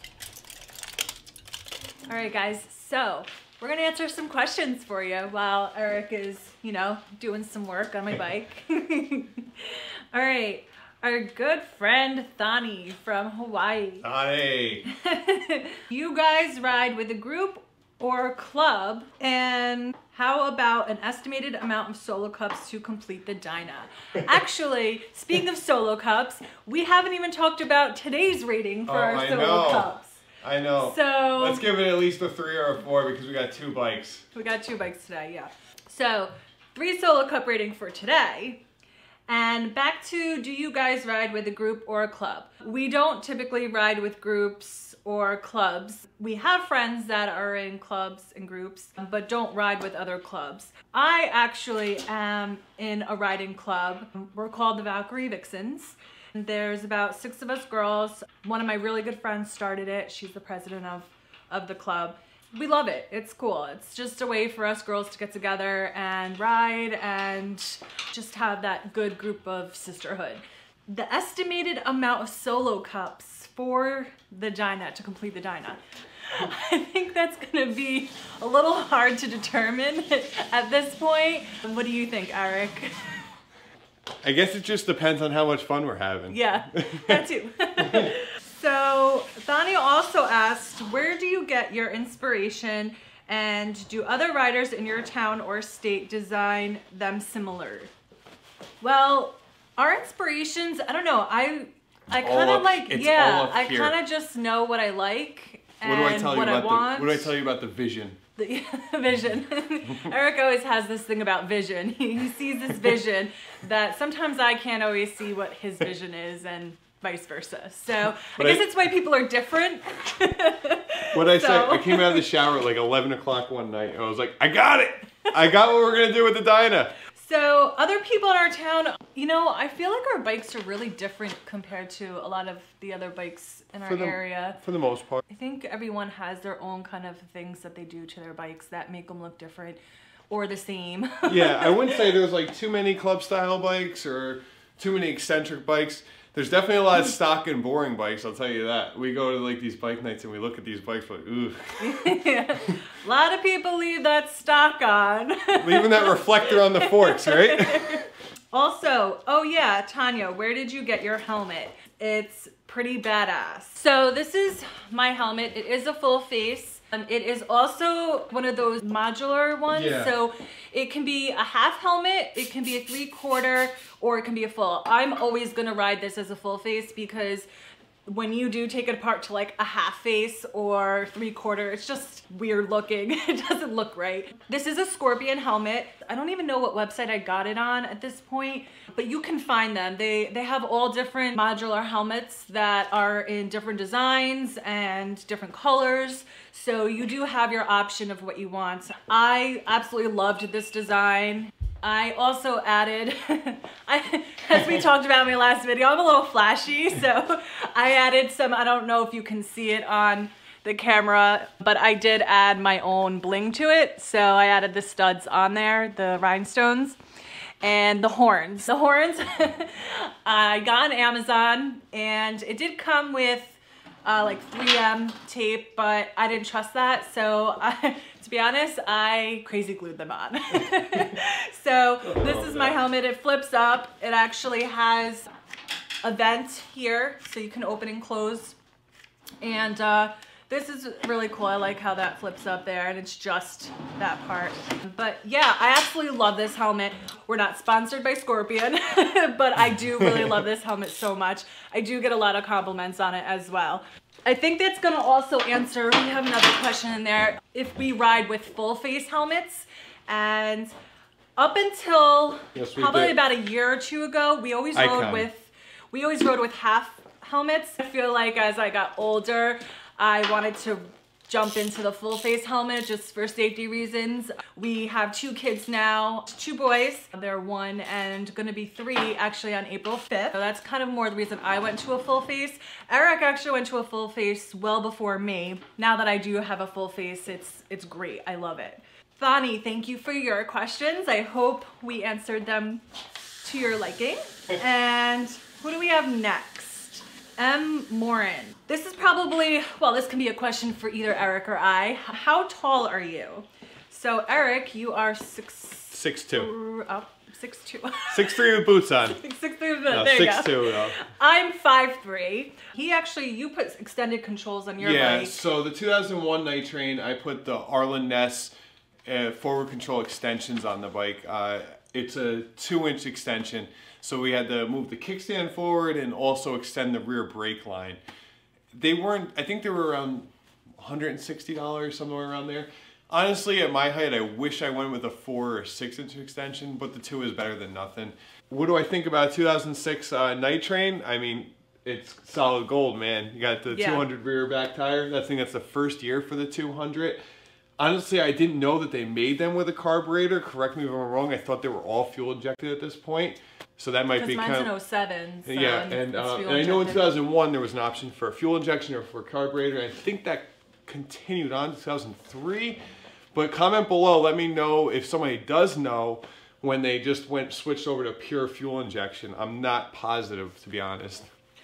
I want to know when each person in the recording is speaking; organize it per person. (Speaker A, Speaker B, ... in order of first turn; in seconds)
Speaker A: 2.1-14.1, 14.9-30.2, 30.8-31.6, 34.3-38.6, 39.3-75.8, 76.3-83.2, 86.3-97.9, 98.8-107.3, 108.4-122.3, 127.1-134.6, 135.3-142.1, 151.8-177.5, 178.1-217.0, 217.6-235.3, 236.0-238.6, 239.4-260.7, 261.4-292.8, 293.4-308.4, 309.1-315.4, 343.7-344.1, 354.1-357.2
Speaker B: 14.0-14.9, 28.9-34.2, 84.2-87.2, 87.8-88.1, 102.2-104.0, 105.8-108.2, 118.4-118.7, 121.1-127.0, 133.9-135.2, 141.3-151.9, 155.6-158.1, 169.7-170.1, 232.0-232.8, 250.0-250.4, 262.5-263.2, 264.8-265.3, 305.9-306.5, 308.1-309.2, 309.9-311.0, 314.8-318.5, 319.1-328.0, 328.7-347.2, 347.8-354.7, 355.4-362.8, 363.3-371.3